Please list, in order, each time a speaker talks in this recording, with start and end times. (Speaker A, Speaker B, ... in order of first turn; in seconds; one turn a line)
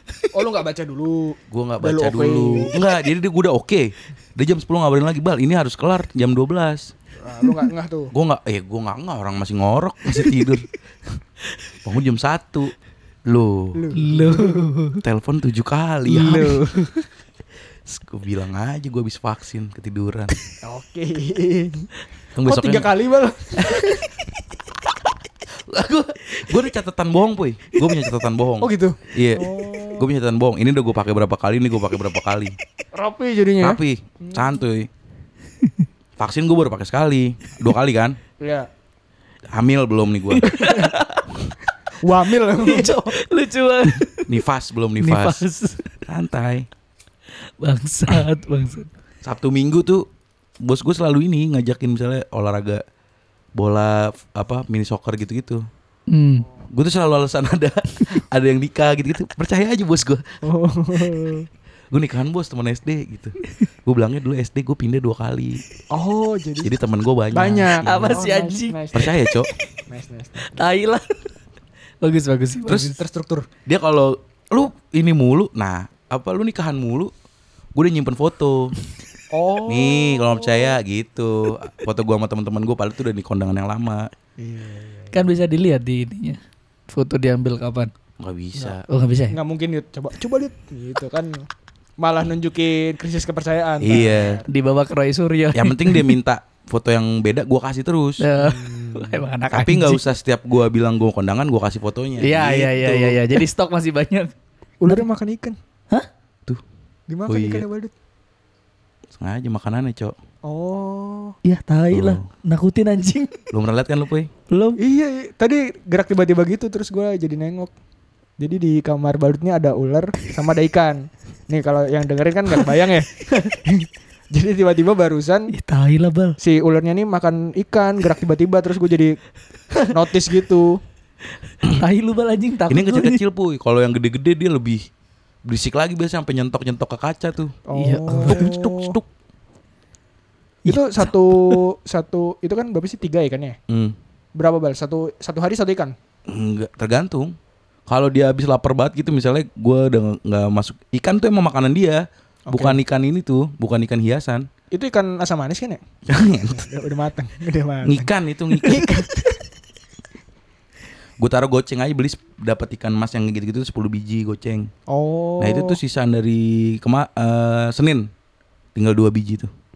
Speaker A: 0.3-2.7
Speaker B: 1.5-6.9
Speaker A: 7.2-8.1
Speaker B: 8.1-10.7
Speaker B: 11.8-12.7
Speaker B: 13.2-13.9
Speaker A: 13.7-14.7
Speaker C: 13.9-15.0
Speaker B: 15.0-16.6
Speaker A: 16.1-16.8
Speaker C: 16.1-17.0
Speaker B: 17.9-20.3
Speaker A: 20.6-21.9
Speaker B: 22.4-22.9
Speaker A: 22.4-24.1
Speaker B: 25.5-32.5
Speaker A: 28.6-30.1
Speaker A: 32.9-34.6
Speaker B: 33.6-34.9
Speaker B: 36.2-38.2
Speaker A: 38.4-38.7
Speaker B: 39.5-40.6
Speaker C: 40.3-41.3
Speaker A: 40.5-40.9
Speaker A: 42.0-42.9
Speaker C: 42.5-44.4
Speaker B: 42.6-43.1
Speaker B: 44.2-45.4
Speaker C: 45.0-45.9
Speaker B: 46.0-46.7
Speaker C: 47.6-48.9
Speaker B: 49.2-50.0
Speaker B: 50.6-52.8
Speaker B: 53.6-55.6
Speaker C: 56.1-56.5
Speaker B: 56.7-60.2
Speaker A: 60.4-61.5
Speaker B: 61.9-65.6
Speaker A: 65.9-66.8
Speaker B: 66.6-68.2
Speaker A: 67.3-69.2
Speaker C: 67.8-68.8
Speaker B: 68.9-69.5
Speaker A: 69.9-70.6
Speaker C: 70.4-71.1
Speaker C: 72.0-73.0
Speaker A: 72.7-73.5
Speaker B: 73.7-77.1
Speaker B: 77.7-78.7
Speaker A: 79.3-80.8
Speaker B: 79.7-84.1
Speaker A: 84.4-85.2
Speaker C: 85.1-87.9
Speaker B: 88.2-88.8
Speaker C: 88.9-89.3
Speaker A: 89.3-91.5
Speaker A: 92.0-94.5
Speaker B: 93.8-94.4
Speaker C: 94.5-96.1
Speaker B: 95.5-98.2
Speaker C: 98.2-100.0
Speaker A: 98.4-99.2
Speaker B: 99.5-103.4
Speaker C: 102.2-104.3
Speaker A: 104.8-105.6
Speaker A: 107.1-107.9
Speaker B: 107.3-107.7
Speaker B: 109.1-110.1
Speaker A: 110.4-111.4
Speaker C: 111.4-113.3
Speaker B: 111.9-112.2
Speaker B: 113.5-114.3
Speaker C: 114.5-114.8
Speaker A: 114.8-117.7
Speaker A: 118.4-125.5
Speaker C: 125.5-126.4
Speaker A: 126.4-129.2
Speaker A: 129.9-130.8
Speaker C: 131.5-133.2
Speaker B: 132.7-134.8
Speaker B: 135.4-137.6
Speaker A: 137.7-139.0
Speaker C: 137.8-138.5
Speaker B: 138.2-139.1
Speaker C: 140.7-141.6
Speaker A: 140.7-143.6
Speaker B: 143.7-143.9
Speaker A: 144.3-145.9
Speaker B: 146.3-147.3
Speaker B: 147.9-154.5
Speaker A: 152.5-152.8
Speaker A: 154.7-155.8
Speaker B: 156.1-156.7
Speaker A: 156.5-159.4
Speaker B: 157.8-159.0
Speaker B: 161.2-164.7
Speaker A: 164.9-165.8
Speaker B: 165.4-168.1
Speaker B: 168.7-169.5